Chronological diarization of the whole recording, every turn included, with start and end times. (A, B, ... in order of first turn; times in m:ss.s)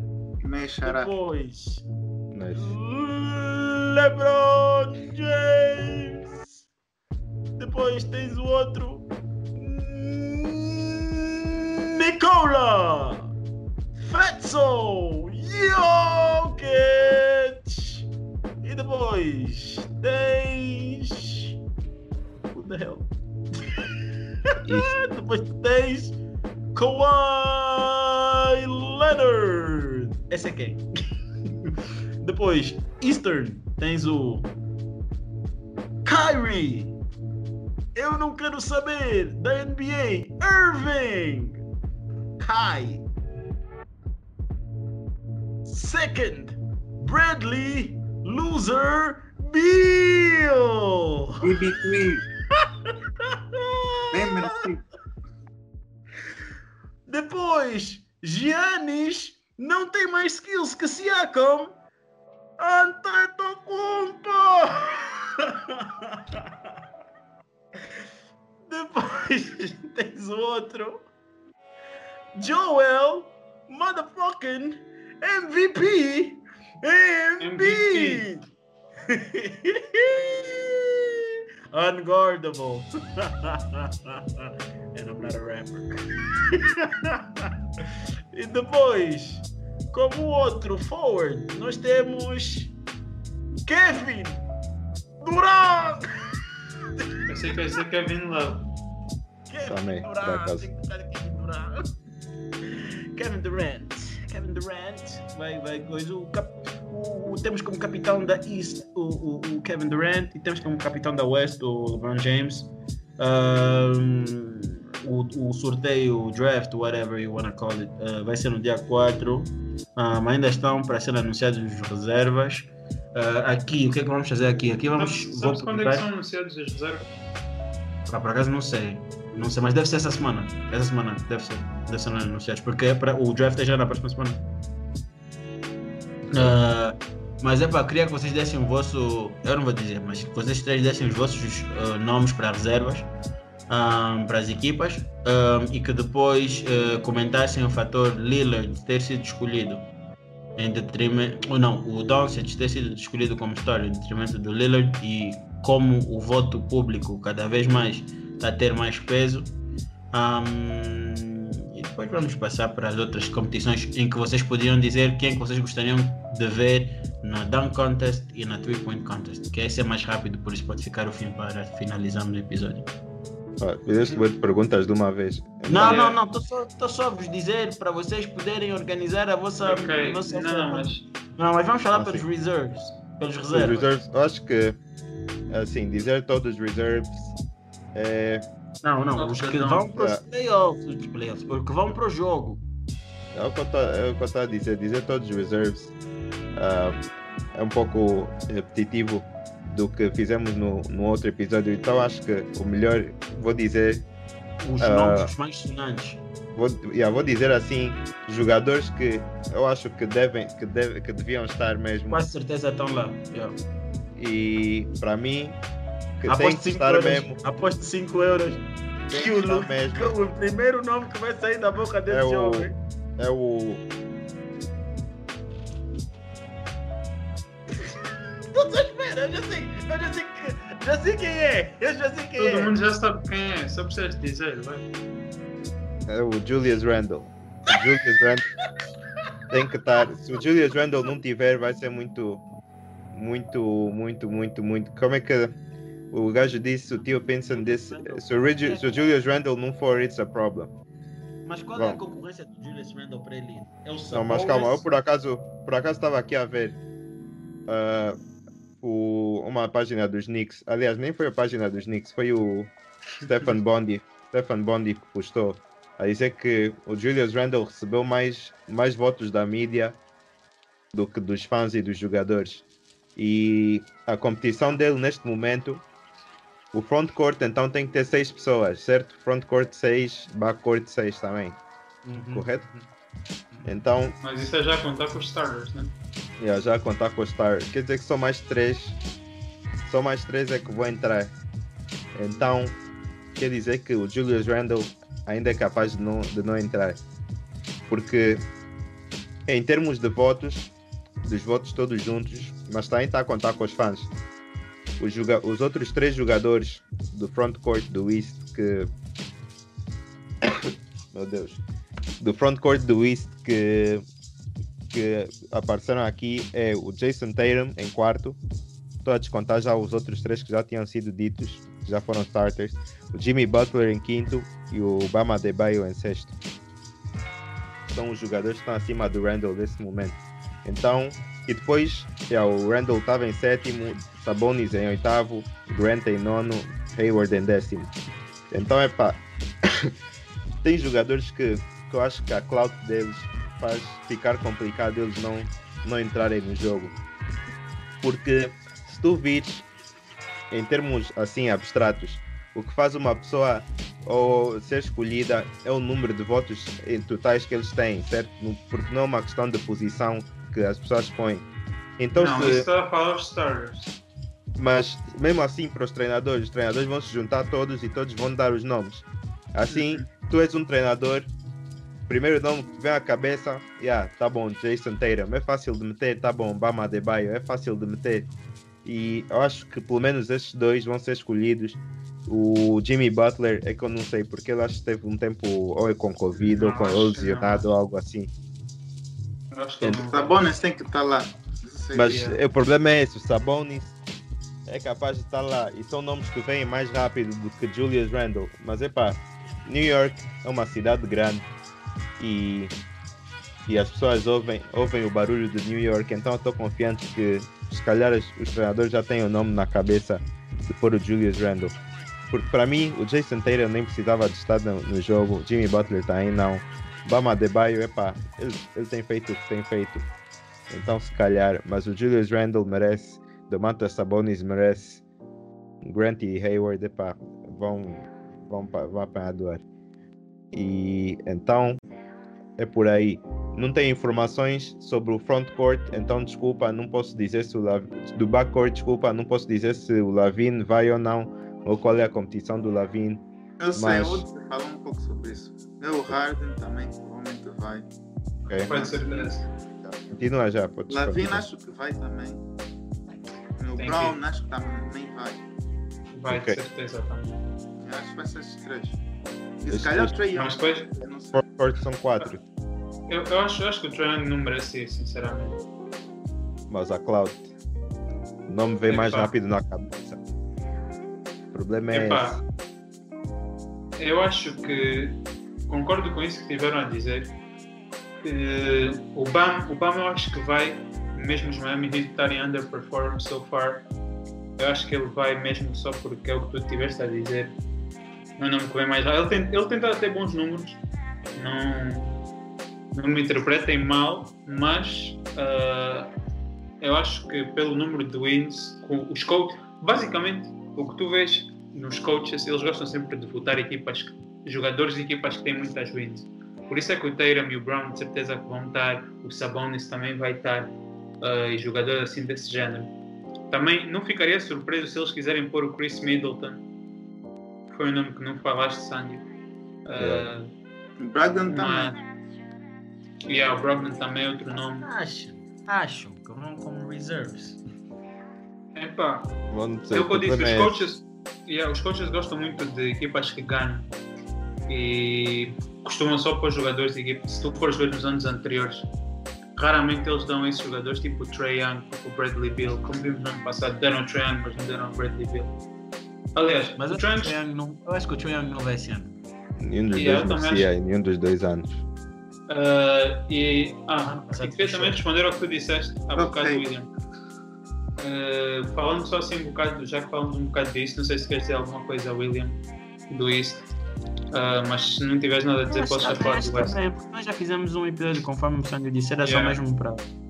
0:00.4-0:01.1 A
0:00.8-0:01.8 B
0:02.3-0:02.7 C
0:02.5-0:06.6 B
0:07.6-0:13.3 B
0:14.0-0:18.1 B
0:18.6-0:21.6 B
0:22.5-0:23.9 B
0:24.5-0:26.2 B
0:24.6-0:24.9 C
0:26.7-0:30.8 B
0:31.5-0:34.5 B
0:36.0-0:37.0 B
0:38.0-0:41.6 B
0:42.4-0:43.0 B
0:45.7-0:51.6 B
0:51.4-0:52.2 A
0:52.5-0:54.6 B
0:54.1-0:54.8 A
0:57.1-1:01.8 B
1:02.6-1:06.7 B
1:08.7-1:11.1 B
1:12.4-1:18.4 B
1:17.4-1:18.3 D
1:19.1-1:32.7 B
1:33.7-1:34.5 B
1:35.2-1:37.3 B
1:37.3-1:38.7 D
1:39.5-1:41.9 B
1:39.7-1:40.7 C
1:42.6-2:06.0 B
2:05.0-2:07.1 D
2:08.1-2:14.4 B
2:16.3-2:23.1 B
2:23.7-2:29.9 B
2:30.6-2:39.5 B
2:40.1-2:52.9 B
2:53.6-2:56.1 C
2:55.7-3:03.9 B
2:55.8-2:56.2 D
2:59.6-3:01.0 D
3:01.9-3:02.2 C
3:03.5-3:04.8 C
3:05.5-3:07.4 C
3:08.0-3:08.4 C
3:08.8-3:12.6 B
3:09.2-3:09.9 D
3:10.0-3:10.2 C
3:13.3-3:15.9 C
3:16.6-3:17.0 C
3:17.6-3:24.0 C
3:24.6-3:26.2 B
3:24.8-3:25.3 C
3:26.6-3:32.2 C
3:32.1-3:33.6 B
3:34.2-3:35.6 C
3:36.2-3:37.4 C
3:36.3-3:42.8 B
3:39.1-3:40.2 C
3:42.1-3:43.8 C
3:47.8-3:52.8 B
3:52.4-3:54.8 D
3:56.1-3:58.4 C
3:59.5-4:02.4 C
4:03.1-4:05.5 C
4:06.1-4:10.7 C
4:07.5-4:09.0 B
4:11.4-4:14.9 B
4:14.1-4:16.8 C
4:17.7-4:18.2 C
4:18.8-4:30.0 C
4:30.9-4:32.6 C
4:33.2-4:35.8 C
4:36.7-4:41.6 C
4:42.0-4:42.8 B
4:42.3-4:42.7 C
4:43.6-4:44.2 C
4:44.2-4:45.9 D
4:46.4-4:49.0 C
4:49.8-4:51.3 C
4:52.2-4:52.8 C
4:53.4-4:57.0 C
4:57.9-4:58.4 C
4:59.5-5:00.7 C
5:01.2-5:04.1 C
5:05.0-5:08.9 C
5:10.4-5:11.6 C
5:12.2-5:14.0 C
5:14.9-5:18.4 C
5:19.0-5:26.4 C
5:27.9-5:37.9 C
5:38.5-5:39.9 C
5:40.6-5:46.9 C
5:48.0-5:49.6 C
5:50.5-6:01.5 C
6:02.0-6:02.7 C
6:02.1-6:04.0 D
6:04.6-6:11.3 C
6:09.7-6:10.1 D
6:12.1-6:18.3 C
6:18.8-6:28.3 C
6:26.4-6:27.7 D
6:29.5-6:30.4 D
6:29.9-6:32.3 A
6:31.9-6:34.0 C
6:32.1-6:32.4 D
6:34.7-6:41.5 C
6:42.2-6:42.7 C
6:43.7-6:51.8 C
6:52.3-7:00.0 C
7:00.7-7:05.0 C
7:05.8-7:09.6 C
7:10.5-7:11.8 C
7:12.6-7:23.2 C
7:23.6-7:27.9 A
7:23.7-7:24.3 C
7:28.5-7:28.7 C
7:28.7-7:29.5 D
7:28.7-7:29.3 A
7:29.8-7:31.4 C
7:30.9-7:32.4 A
7:33.6-7:35.4 A
7:33.8-7:34.2 D
7:36.1-7:37.4 D
7:36.3-7:36.6 C
7:37.8-7:39.0 A
7:39.6-7:41.4 A
7:39.7-7:40.1 C
7:40.3-7:40.9 D
7:41.3-7:42.4 C
7:43.1-7:45.6 D
7:46.7-7:47.5 C
7:48.5-7:50.2 C
7:48.9-7:49.3 D
7:51.5-7:52.4 C
7:51.9-7:52.4 D
7:54.0-7:57.3 D
7:58.2-8:03.9 D
8:04.6-8:07.6 D
8:08.4-8:10.8 D
8:11.4-8:12.2 D
8:12.9-8:16.1 D
8:16.8-8:32.9 D
8:33.5-8:36.6 D
8:37.7-8:39.2 D
8:39.9-8:40.5 D
8:40.0-8:40.3 C
8:41.0-8:42.0 A
8:41.5-8:42.0 D
8:43.2-8:44.9 D
8:44.8-8:47.6 B
8:48.8-8:49.3 D
8:49.5-8:51.0 C
8:49.9-8:53.9 D
8:54.7-8:58.9 D
8:59.6-9:05.5 D
9:06.4-9:07.4 D
9:06.8-9:09.2 B
9:09.6-9:11.8 C
9:09.9-9:10.7 D
9:12.5-9:16.9 D
9:14.0-9:15.0 B
9:16.2-9:16.6 A
9:18.0-9:22.6 D
9:23.1-9:23.7 D
9:24.3-9:26.8 D
9:25.7-9:30.0 B
9:29.2-9:29.6 D